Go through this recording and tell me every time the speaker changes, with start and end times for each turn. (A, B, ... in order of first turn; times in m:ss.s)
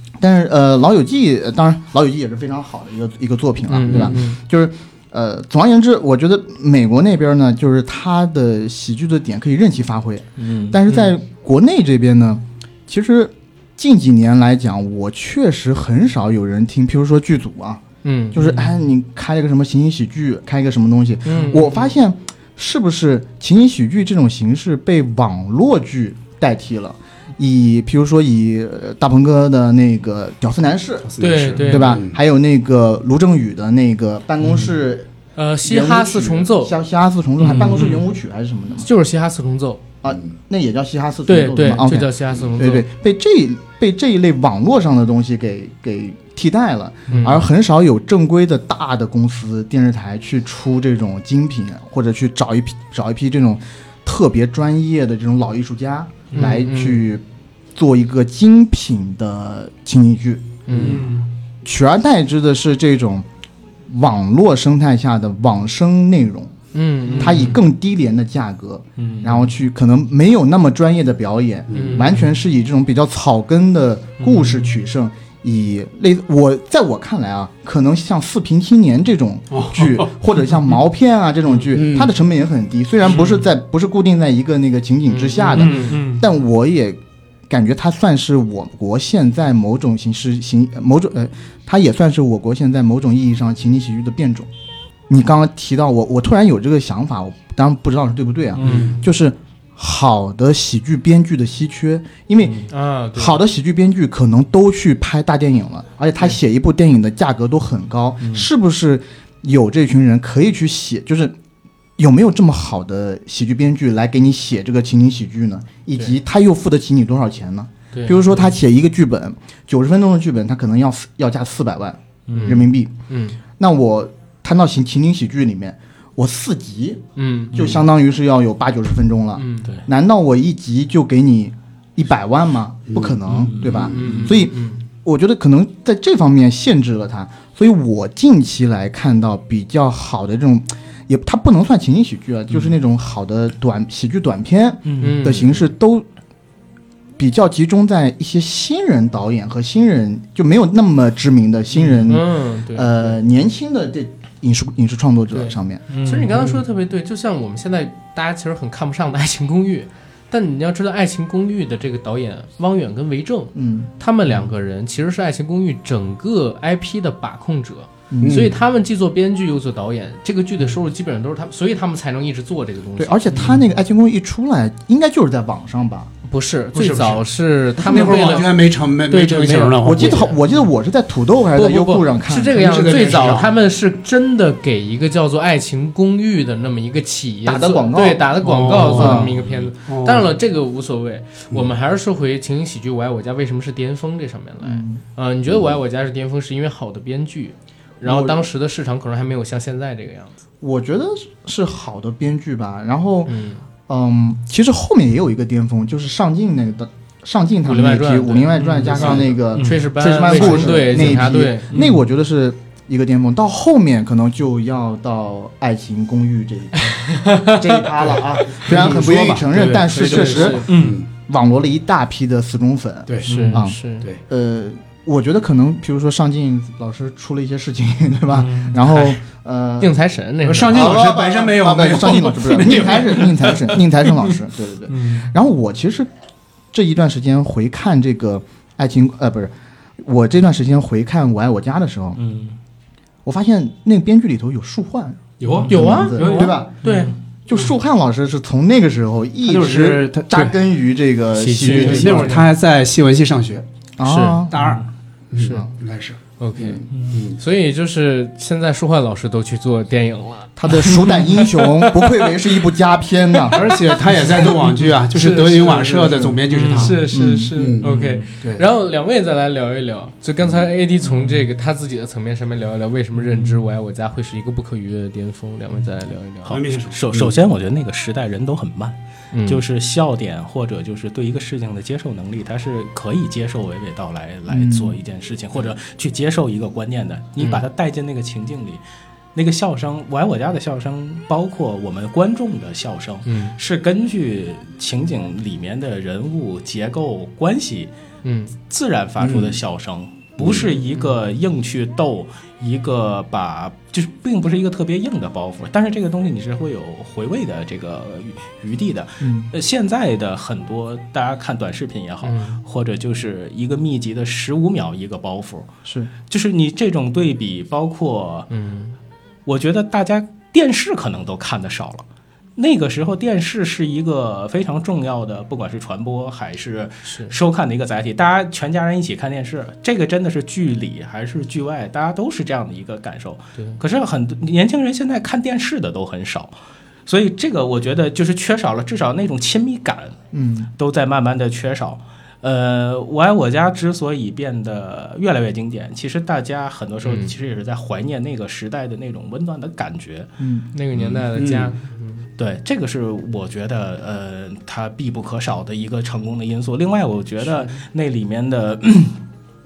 0:00.2-0:35.1 A
0:03.7-0:04.4 B
0:10.4-0:10.8 C
0:10.9-0:11.1 B
0:18.0-0:18.5 B
0:18.4-0:18.7 C
0:21.3-0:21.8 B
0:31.0-0:32.2 D
0:31.2-0:32.0 B
0:35.4-0:36.8 B
0:35.6-0:38.9 A
0:37.4-0:38.0 C
0:38.8-0:39.8 B
0:40.0-0:57.2 A
0:40.1-0:40.3 D
0:41.3-0:42.9 B
0:47.1-0:47.5 B
0:56.3-0:57.0 B
0:57.8-1:00.6 A
1:00.7-1:01.0 B
1:00.7-1:01.0 D
1:00.8-1:01.3 C
1:01.6-1:03.3 A
1:03.9-1:06.5 A
1:06.7-1:07.6 B
1:07.1-1:07.6 C
1:07.2-1:34.5 A
1:09.0-1:09.5 C
1:11.7-1:12.1 D
1:11.7-1:12.1 B
1:14.2-1:14.7 C
1:19.5-1:20.1 D
1:21.7-1:22.1 D
1:23.0-1:23.4 C
1:25.1-1:26.1 B
1:25.4-1:26.2 C
1:35.1-1:51.4 A
1:38.6-1:39.0 C
1:38.6-1:39.0 D
1:42.4-1:42.7 C
1:42.7-1:43.4 B
1:48.2-1:48.5 C
1:52.0-2:02.9 A
1:57.9-1:58.4 B
2:02.3-2:02.7 C
2:02.3-2:03.4 B
2:03.6-2:26.1 A
2:07.2-2:07.6 B
2:07.5-2:07.8 C
2:09.4-2:09.7 B
2:12.9-2:13.9 D
2:13.3-2:14.4 C
2:13.8-2:14.8 B
2:24.9-2:25.4 C
2:25.0-2:25.6 B
2:27.2-2:35.8 A
2:31.8-2:32.2 C
2:32.1-2:33.2 B
2:35.3-2:53.4 B
2:35.9-2:36.6 C
2:43.6-2:43.9 A
2:48.1-2:48.5 A
2:48.2-2:48.6 D
2:53.0-2:56.1 A
2:53.3-2:53.6 C
2:56.3-2:58.6 B
2:56.7-2:57.2 D
2:57.8-3:00.4 D
2:57.9-2:58.4 A
2:59.1-3:00.3 B
2:59.8-3:03.4 A
3:01.6-3:20.3 B
3:02.5-3:03.5 D
3:07.4-3:09.3 A
3:08.4-3:10.4 D
3:14.6-3:15.0 A
3:18.0-3:18.5 A
3:20.6-3:23.4 A
3:23.3-3:23.6 B
3:23.9-3:50.0 A
3:27.6-3:31.8 B
3:28.6-3:32.0 C
3:29.0-3:29.2 D
3:37.0-3:37.8 B
3:38.0-3:41.1 D
3:39.5-3:40.7 B
3:40.7-3:41.0 C
3:43.1-3:43.4 D
3:43.3-3:43.6 C
3:43.3-3:44.1 B
3:48.3-3:48.9 C
3:49.8-3:51.0 B
3:50.4-3:53.6 D
3:50.6-3:56.1 A
3:52.6-3:53.6 C
3:54.9-3:55.3 C
3:56.7-4:02.2 A
4:02.2-4:02.6 C
4:03.2-4:06.8 A
4:05.4-4:06.7 D
4:05.7-4:07.2 B
4:06.2-4:07.2 C
4:07.5-4:12.5 A
4:09.4-4:10.6 D
4:11.3-4:12.5 B
4:11.6-4:13.7 D
4:14.0-4:14.6 A
4:14.0-4:14.5 B
4:14.5-4:16.2 D
4:14.6-4:14.8 C
4:15.4-4:15.7 B
4:15.4-4:15.7 A
4:16.4-4:21.7 B
4:16.9-4:17.2 C
4:17.1-4:17.4 D
4:20.6-4:23.7 A
4:23.5-4:27.9 D
4:25.1-4:36.6 B
4:26.5-4:27.0 C
4:27.1-4:27.5 A
4:27.8-4:28.2 C
4:33.3-4:33.6 C
4:36.5-4:37.4 D
4:36.9-4:39.0 C
4:39.3-4:39.6 B
4:39.5-4:48.8 C
4:44.5-4:45.0 A
4:49.3-4:57.9 C
4:53.3-4:53.6 B
4:58.2-4:58.5 B
4:58.7-5:15.7 C
4:59.2-4:59.6 D
5:00.4-5:00.6 D
5:09.2-5:09.5 A
5:12.2-5:12.6 B
5:15.9-5:16.1 A
5:16.3-5:18.5 C
5:18.5-5:19.0 B
5:19.5-5:36.5 C
5:27.1-5:27.3 B
5:37.1-5:40.2 C
5:40.3-5:40.7 A
5:40.8-5:50.3 C
5:47.0-5:47.3 B
5:50.4-5:50.7 A
5:50.7-5:52.3 B
5:51.0-5:51.3 C
5:51.3-5:51.7 D
5:52.4-5:59.2 C